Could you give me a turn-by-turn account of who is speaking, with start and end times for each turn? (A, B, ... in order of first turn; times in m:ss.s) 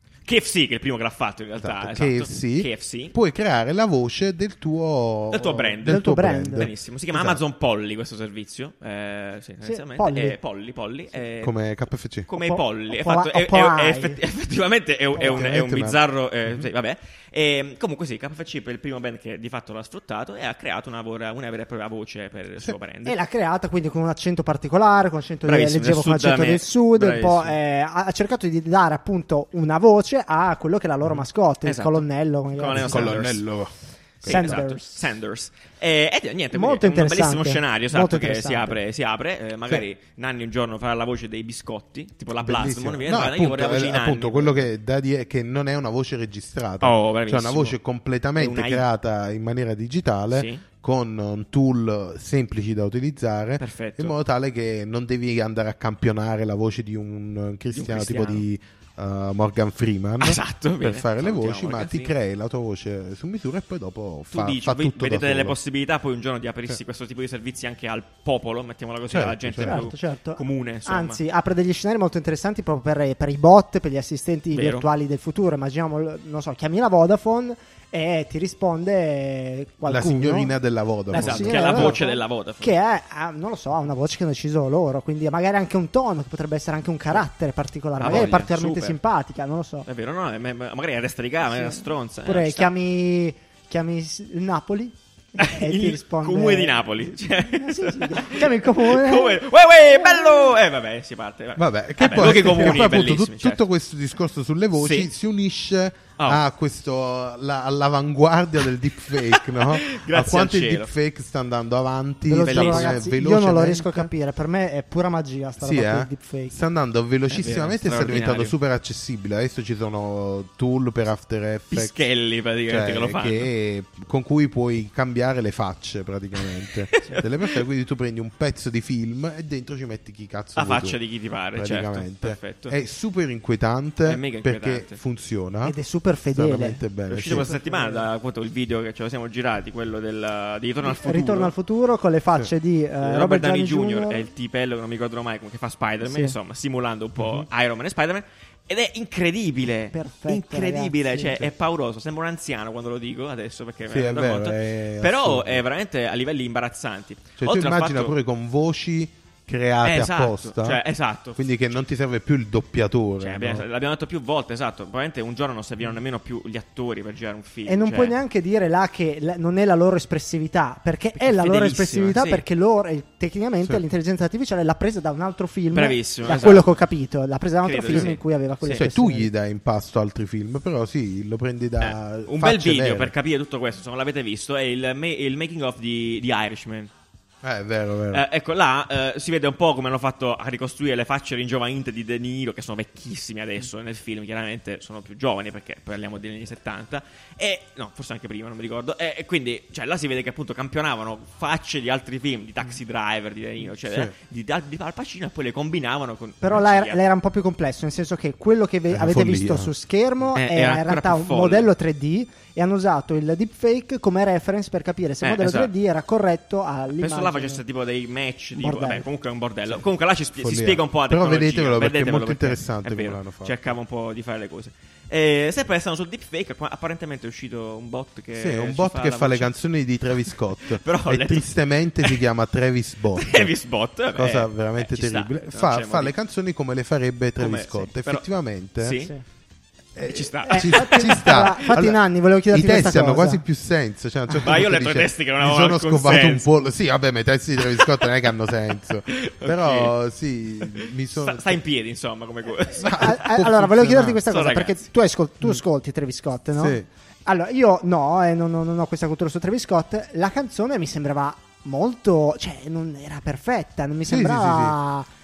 0:00.2-0:03.1 A
0:01.6-0:07.4 B
0:05.3-0:11.5 A
0:05.8-0:06.7 C
0:09.6-0:10.4 C
0:11.4-0:12.3 B
0:12.3-0:23.2 A
0:12.4-0:14.2 C
0:15.2-0:15.5 C
0:15.2-0:16.7 B
0:23.0-0:33.2 C
0:25.4-0:27.6 A
0:31.6-0:33.4 A
0:32.7-0:34.6 B
0:34.2-0:44.7 A
0:34.2-0:35.0 C
0:36.5-0:38.8 C
0:42.4-1:05.6 B
0:46.8-0:47.8 A
0:48.4-0:48.8 A
0:50.3-0:50.6 A
0:53.6-0:54.1 A
0:57.7-0:58.4 A
1:00.2-1:02.1 A
1:04.3-1:11.2 A
1:09.1-1:09.8 B
1:09.6-1:20.5 C
1:14.5-1:14.8 A
1:19.9-1:22.0 B
1:21.1-1:29.8 C
1:21.1-1:22.8 A
1:28.0-1:29.0 A
1:29.8-1:32.7 A
1:31.5-1:36.9 C
1:35.4-1:43.6 A
1:37.5-1:39.4 C
1:40.2-1:40.5 C
1:41.6-1:54.1 B
1:44.8-1:45.1 A
1:49.1-1:50.9 A
1:52.3-1:56.5 C
1:52.5-1:53.0 A
1:55.6-2:02.0 B
1:57.3-1:58.6 A
2:01.7-2:03.5 A
2:02.7-2:11.0 B
2:06.9-2:07.2 A
2:10.6-2:12.8 A
2:11.5-2:15.8 B
2:14.0-2:15.0 A
2:15.6-2:18.0 C
2:16.3-2:17.5 B
2:17.1-2:21.5 A
2:20.9-2:24.2 C
2:23.0-2:38.1 A
2:26.0-2:26.3 C
2:27.2-2:27.4 B
2:29.9-2:31.4 C
2:33.9-2:35.6 B
2:37.4-2:40.8 B
2:39.8-2:41.4 A
2:41.4-2:43.6 B
2:43.2-2:48.1 A
2:47.7-2:59.3 C
2:51.2-2:52.4 A
2:55.7-2:56.7 A
2:57.6-2:58.8 A
2:57.9-2:58.1 B
2:58.7-3:03.1 B
3:01.8-3:06.9 A
3:07.4-3:08.2 B
3:08.1-3:27.0 A
3:23.8-3:24.1 B
3:26.4-3:37.6 C
3:28.9-3:29.7 B
3:30.3-3:31.7 A
3:35.2-3:35.7 A
3:37.0-3:49.5 A
3:38.6-3:39.0 C
3:40.4-3:43.6 B
3:48.3-3:53.5 B
3:50.6-3:51.5 A
3:53.1-3:56.1 A
3:54.1-3:59.0 B
3:57.4-3:58.2 A
3:58.8-3:59.1 A
4:00.0-4:11.6 B
4:00.0-4:01.5 A
4:00.5-4:03.4 C
4:04.4-4:06.5 A
4:07.7-4:08.1 A
4:09.1-4:09.9 A
4:10.6-4:14.9 A
4:12.8-4:14.2 B
4:12.9-4:25.1 C
4:16.5-4:16.9 B
4:24.1-4:24.8 B